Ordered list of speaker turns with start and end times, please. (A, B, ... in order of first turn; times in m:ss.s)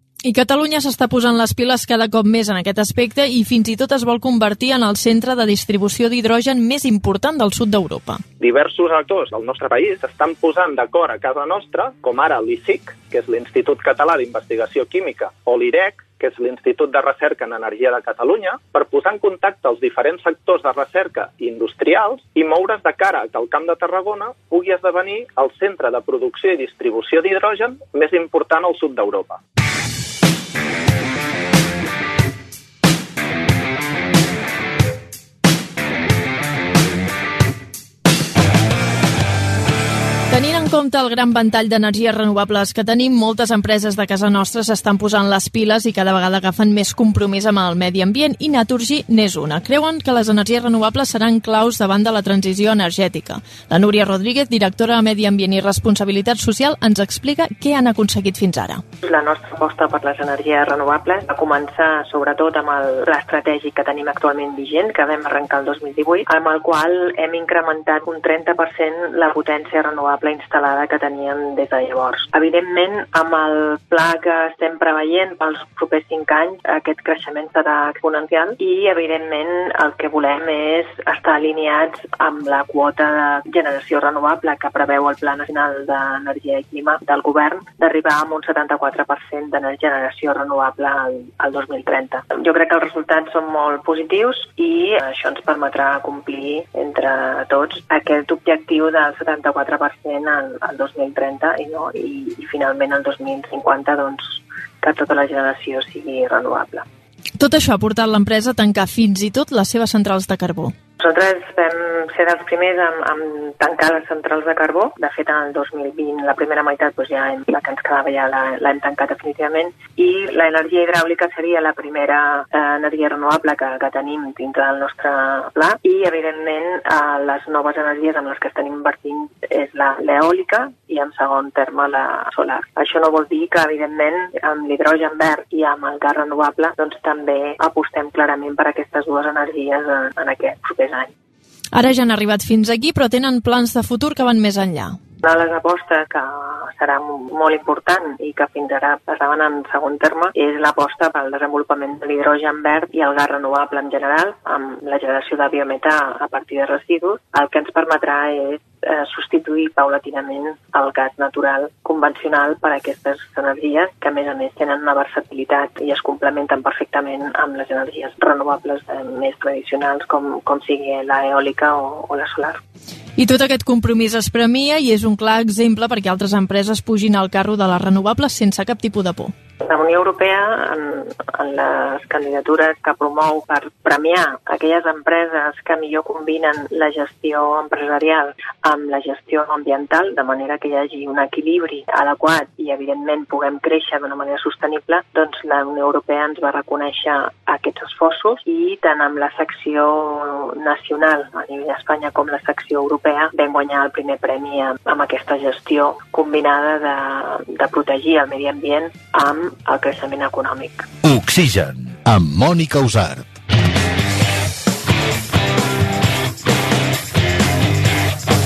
0:00.2-0:08.2 A
0:08.4-0:29.4 B
0:40.3-0:58.8 A
0:59.0-1:46.8 C
1:47.4-1:50.7 A
1:51.0-2:21.1 C
2:21.7-2:24.9 A
2:25.2-2:52.6 C
2:53.2-2:59.3 A
2:59.6-3:30.9 C
3:31.0-3:33.2 D